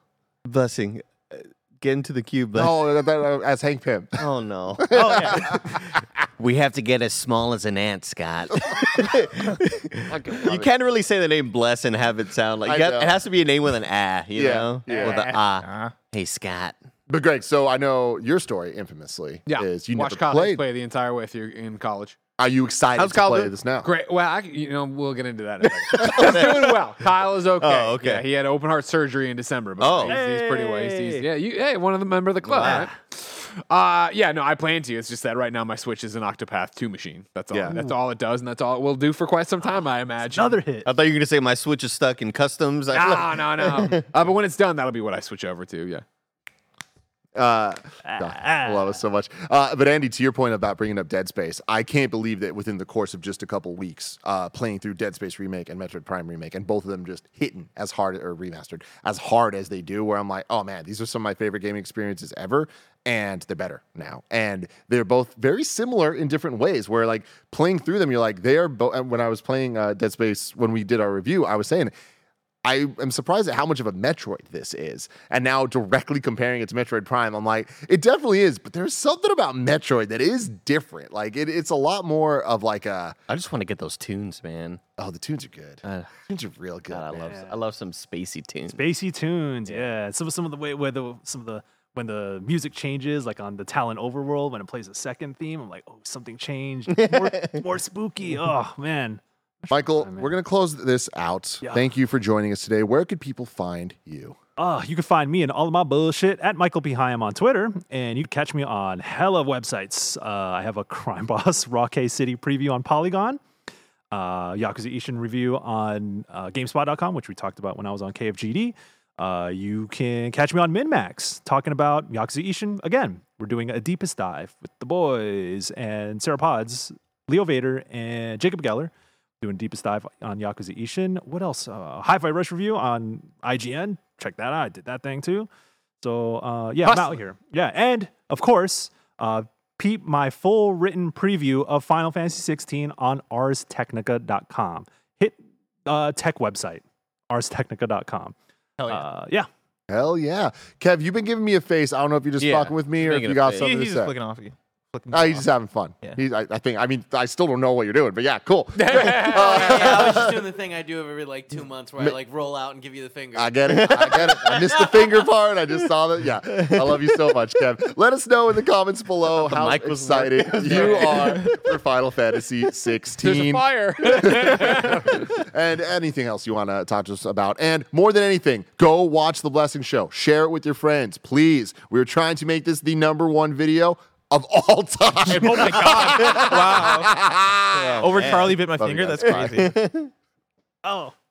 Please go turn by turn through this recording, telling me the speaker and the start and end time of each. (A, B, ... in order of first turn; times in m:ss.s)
0:00.4-0:02.7 A
0:02.5-0:04.2 B
0:04.2-0:05.8 A
0:04.9-0:05.8 B
0:04.9-0:05.4 C
0:06.4-0:16.7 A
0:10.1-0:10.7 D
0:12.6-0:13.1 B
0:14.4-0:15.2 B
0:15.0-0:15.9 E
0:17.1-0:20.6 B
0:19.4-0:22.2 D
0:22.4-0:23.9 B
0:23.0-0:23.5 A
0:23.0-0:40.6 D
0:25.7-0:26.7 A
0:26.2-0:26.4 B
0:27.6-0:28.2 A
0:29.8-0:30.2 A
0:30.1-0:31.2 C
0:32.5-0:32.9 A
0:32.6-0:32.9 C
0:40.2-0:40.9 C
0:40.8-0:44.1 A
0:42.9-0:46.0 D
0:47.3-1:11.9 B
0:48.0-0:49.0 C
1:12.6-1:23.2 B
1:23.3-1:24.8 A
1:25.0-1:27.3 B
1:25.8-1:26.2 A
1:26.9-1:28.8 A
1:27.2-1:27.5 C
1:28.7-1:40.3 C
1:36.9-1:37.6 A
1:39.7-1:44.4 B
1:44.6-1:53.4 C
1:54.1-2:15.5 C
2:16.0-2:28.3 C
2:28.8-2:29.0 E
2:28.9-2:29.5 C
2:29.9-2:34.1 B
2:32.4-2:33.7 A
2:33.6-2:35.4 E
2:35.1-2:40.5 B
2:38.7-2:39.5 D
2:39.1-2:45.0 F
2:43.3-3:09.7 B
2:43.7-2:44.8 A
2:46.5-2:47.2 A
2:49.4-2:51.6 A
2:50.7-2:51.0 D
2:53.2-2:55.2 D
3:05.3-3:06.5 D
3:05.5-3:05.9 C
3:06.3-3:07.1 E
3:07.7-3:09.7 E
3:08.0-3:08.6 A
3:09.2-3:10.1 A
3:10.8-3:11.1 C